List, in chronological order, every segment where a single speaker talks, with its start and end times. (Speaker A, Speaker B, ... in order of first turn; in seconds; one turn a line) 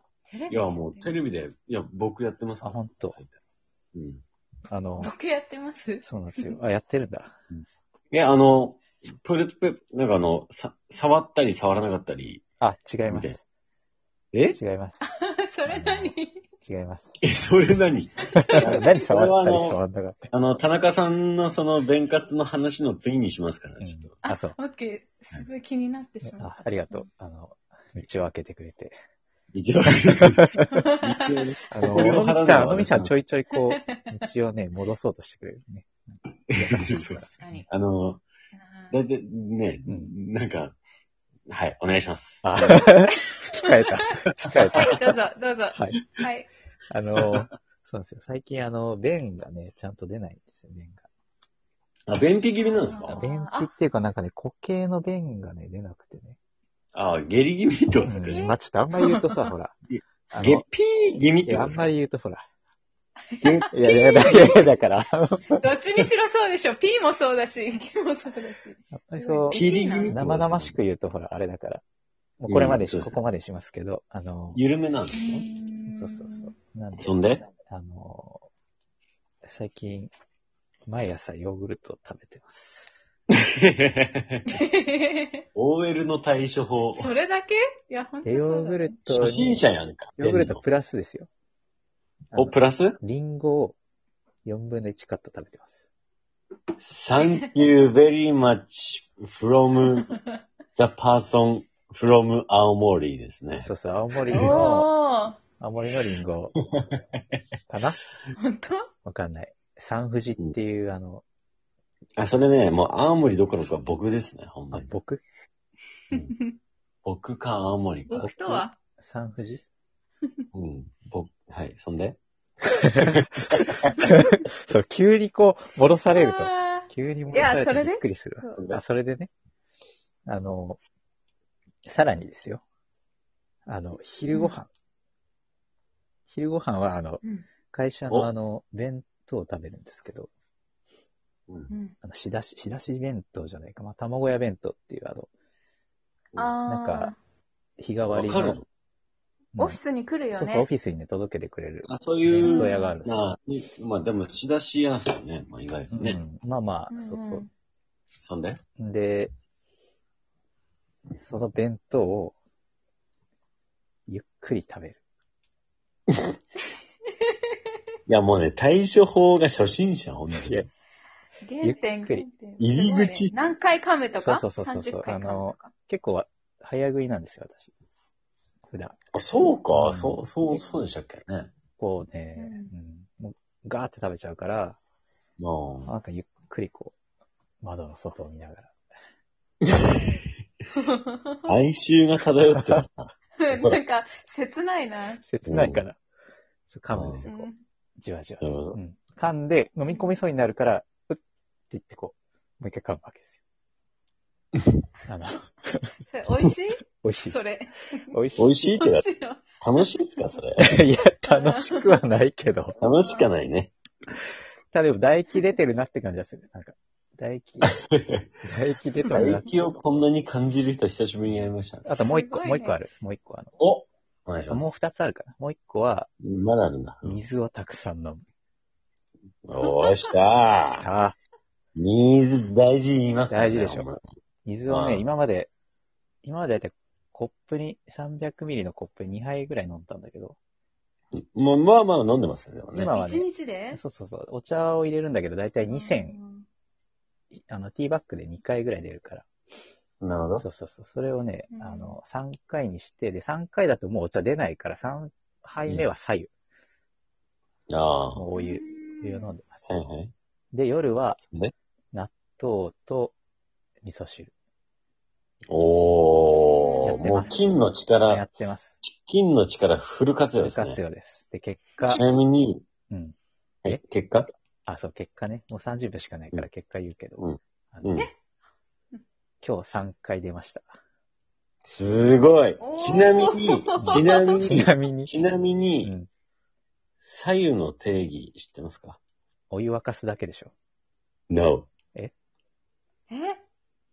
Speaker A: 0.3-1.2
Speaker B: 0.5-3.3
Speaker C: 2.6-3.2
Speaker B: 3.9-4.2
Speaker C: 4.7-5.1
Speaker A: 5.0-6.5
Speaker C: 6.0-7.4
Speaker B: 7.5-12.4
Speaker C: 12.6-13.4
Speaker B: 13.1-13.3
Speaker B: 14.3-14.6
Speaker C: 14.5-15.0
Speaker A: 15.1-16.4
Speaker C: 15.7-17.2
Speaker B: 17.2-19.8
Speaker A: 18.4-18.9
Speaker C: 18.4-20.3
Speaker B: 20.3-24.1
Speaker C: 23.8-24.6
Speaker A: 24.2-27.0
Speaker C: 26.2-28.9
Speaker B: 29.5-33.1
Speaker A: 30.7-31.4
Speaker C: 31.7-36.0
Speaker A: 33.6-34.3
Speaker C: 36.5-37.2
Speaker B: 36.5-38.2
Speaker A: 36.9-37.7
Speaker A: 38.5-39.0
Speaker B: 38.9-40.8
Speaker C: 39.9-40.1
Speaker B: 41.5-42.9
Speaker C: 42.4-45.1
Speaker A: 43.1-44.1
Speaker A: 44.7-46.5
Speaker C: 45.7-46.0
Speaker C: 46.9-51.0
Speaker B: 47.2-47.4
Speaker B: 52.1-53.2
Speaker A: 52.6-53.7
Speaker C: 53.1-56.4
Speaker B: 56.9-58.5
Speaker A: 58.0-59.4
Speaker C: 58.1-59.7
Speaker B: 59.9-61.9
Speaker C: 60.3-60.6
Speaker C: 61.4-62.4
Speaker A: 63.3-64.7
Speaker B: 63.4-63.7
Speaker C: 63.7-65.6
Speaker A: 65.5-70.2
Speaker C: 68.9-71.8
Speaker B: 69.5-70.8
Speaker C: 72.4-74.6
Speaker B: 72.5-73.2
Speaker B: 74.5-75.4
Speaker A: 75.1-76.5
Speaker C: 75.9-78.5
Speaker B: 77.0-77.4
Speaker C: 79.4-80.1
Speaker C: 80.9-82.9
Speaker B: 83.3-84.5
Speaker A: 84.5-85.4
Speaker B: 85.5-87.1
Speaker A: 86.9-89.0
Speaker C: 88.2-91.3
Speaker B: 89.1-90.6
Speaker C: 92.3-93.8
Speaker B: 92.3-93.0
Speaker C: 94.5-95.7
Speaker B: 96.8-100.1
Speaker A: 99.9-100.2
Speaker B: 100.8-103.7
Speaker C: 103.6-104.9
Speaker A: 104.3-105.4
Speaker B: 104.3-104.7
Speaker C: 105.6-106.5
Speaker C: 107.7-108.0
Speaker A: 108.3-108.9
Speaker C: 109.0-111.2
Speaker B: 112.2-114.9
Speaker C: 114.7-115.2
Speaker A: 116.1-116.5
Speaker B: 117.0-118.6
Speaker A: 118.1-118.7
Speaker C: 119.0-119.6
Speaker B: 120.5-123.9
Speaker C: 123.0-129.3
Speaker A: 126.1-128.6
Speaker B: 128.5-128.8
Speaker C: 130.2-130.8
Speaker C: 131.8-132.6
Speaker C: 133.7-134.7
Speaker A: 134.3-134.6
Speaker C: 136.3-140.3
Speaker A: 137.2-137.5
Speaker A: 141.7-141.9
Speaker C: 142.0-145.3
Speaker A: 146.3-147.2
Speaker C: 146.7-147.1
Speaker C: 147.8-148.6
Speaker B: 148.1-148.6
Speaker C: 149.5-149.8
Speaker A: 149.6-150.7
Speaker C: 150.3-153.3
Speaker B: 151.8-156.2
Speaker A: 152.4-152.9
Speaker C: 155.9-157.4
Speaker A: 156.9-157.5
Speaker B: 158.2-158.6
Speaker C: 158.8-159.3
Speaker C: 161.1-162.3
Speaker C: 164.1-165.0
Speaker B: 168.1-170.7
Speaker C: 170.3-170.7
Speaker A: 171.4-175.7
Speaker C: 171.6-172.2
Speaker B: 172.6-173.3
Speaker C: 174.1-177.7
Speaker C: 178.7-179.0
Speaker B: 179.1-181.5
Speaker C: 179.7-180.3
Speaker C: 181.8-184.8
Speaker A: 182.3-182.7
Speaker B: 185.4-185.9
Speaker C: 185.8-186.9
Speaker C: 187.6-188.7
Speaker B: 189.6-190.2
Speaker A: 190.7-191.5
Speaker B: 191.5-193.8
Speaker C: 192.5-192.8
Speaker A: 193.4-195.2
Speaker C: 195.2-196.0
Speaker B: 195.4-195.8
Speaker C: 196.7-203.4
Speaker B: 196.9-197.2
Speaker A: 197.2-197.6
Speaker B: 198.4-198.8
Speaker A: 199.9-200.2
Speaker C: 205.1-205.9
Speaker A: 206.0-208.1
Speaker C: 207.0-207.4
Speaker C: 208.1-208.8
Speaker B: 208.4-209.0
Speaker A: 208.8-209.4
Speaker B: 209.6-210.8
Speaker C: 210.6-212.8
Speaker A: 211.2-212.0
Speaker A: 212.8-213.3
Speaker B: 212.8-213.7
Speaker C: 214.7-217.8
Speaker B: 217.6-218.3
Speaker C: 218.4-219.5
Speaker A: 218.9-219.6
Speaker B: 219.1-221.9
Speaker A: 221.8-222.8
Speaker C: 221.8-223.6
Speaker B: 223.6-224.7
Speaker C: 224.5-226.1
Speaker B: 226.2-227.2
Speaker C: 227.0-228.2
Speaker B: 229.4-230.8
Speaker A: 229.6-230.1
Speaker C: 230.7-231.2
Speaker B: 231.8-234.0
Speaker C: 233.3-233.9
Speaker C: 234.4-235.5
Speaker B: 234.7-235.1
Speaker C: 236.2-240.3
Speaker B: 241.1-242.9
Speaker C: 242.7-246.2
Speaker A: 242.9-243.8
Speaker A: 245.6-246.4
Speaker C: 247.3-249.2
Speaker B: 250.0-250.4
Speaker C: 250.4-256.3
Speaker A: 251.5-252.0
Speaker B: 257.7-258.2
Speaker C: 258.1-259.8
Speaker A: 258.4-259.3
Speaker B: 259.7-260.1
Speaker C: 260.5-261.2
Speaker C: 261.9-263.1
Speaker C: 263.8-264.3
Speaker B: 265.5-268.2
Speaker A: 266.4-267.3
Speaker C: 266.8-268.8
Speaker B: 268.8-270.8
Speaker C: 270.4-272.0
Speaker A: 271.8-272.0
Speaker B: 271.9-272.6
Speaker C: 272.9-273.8
Speaker B: 273.6-274.3
Speaker C: 274.6-278.0
Speaker B: 277.2-278.1
Speaker C: 279.4-280.8
Speaker B: 281.6-285.9
Speaker A: 282.6-284.4
Speaker C: 283.8-285.1
Speaker C: 285.8-286.1
Speaker B: 287.0-289.0
Speaker C: 289.5-290.5
Speaker B: 291.3-291.7
Speaker A: 293.1-293.4